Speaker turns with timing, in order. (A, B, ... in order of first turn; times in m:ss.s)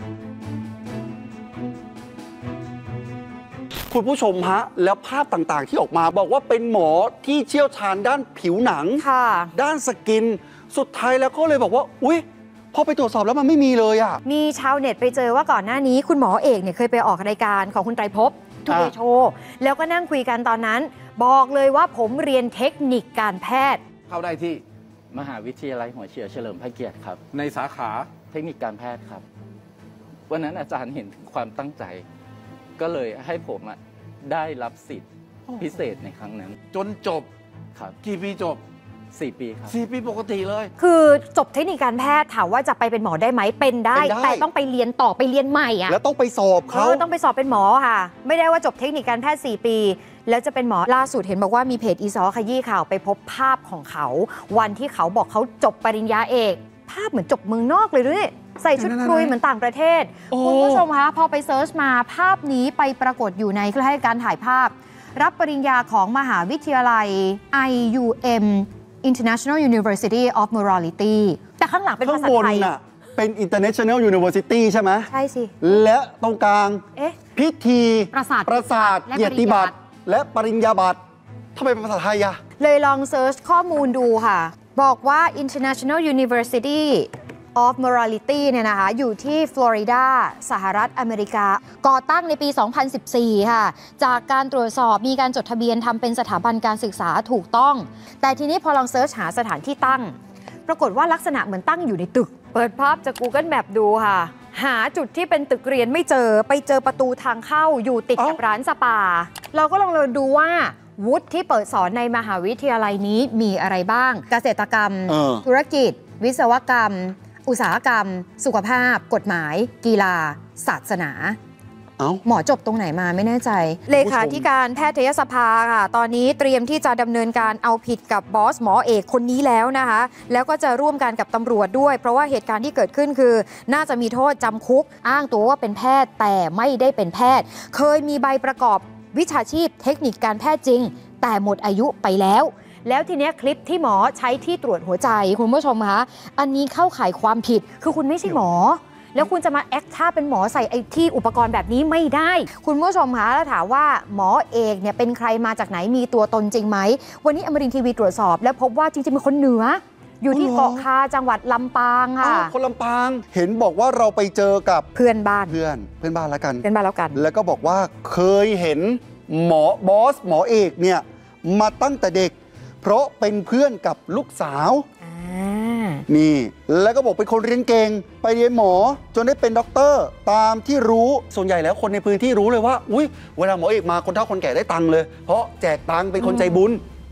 0:03.9-0:14.2 A
0:09.0-0:09.5 B
0:14.2-0:23.8 B
0:18.7-0:18.9 A
0:24.1-0:24.6 C
0:25.1-0:27.2 D
0:27.3-0:28.1 C
0:28.2-0:29.2 D
0:30.3-0:32.0 D
0:32.8-0:36.6 D
0:36.7-0:37.3 C
0:38.0-0:38.6 C
0:39.1-0:39.8 D
0:39.7-0:40.7 C
0:40.8-0:46.0 B
0:43.9-0:44.4 A
0:45.9-0:47.0 A
0:46.7-1:12.7 B
0:58.8-0:59.3 A
1:00.3-1:00.9 A
1:12.0-1:15.1 A
1:15.1-1:15.6 B
1:15.6-1:16.8 A
1:17.3-1:21.0 A
1:18.1-1:19.8 B
1:21.6-1:22.4 A
1:22.6-1:40.2 B
1:40.7-2:01.4 B
1:55.1-1:55.4 A
2:02.2-2:42.5 B
2:03.9-2:04.5 A
2:40.3-2:40.9 A
2:42.2-2:44.9 A
2:44.9-2:45.6 B
2:45.5-2:54.8 A
2:46.6-2:47.2 B
2:55.0-2:56.0 B
2:56.1-3:06.8 A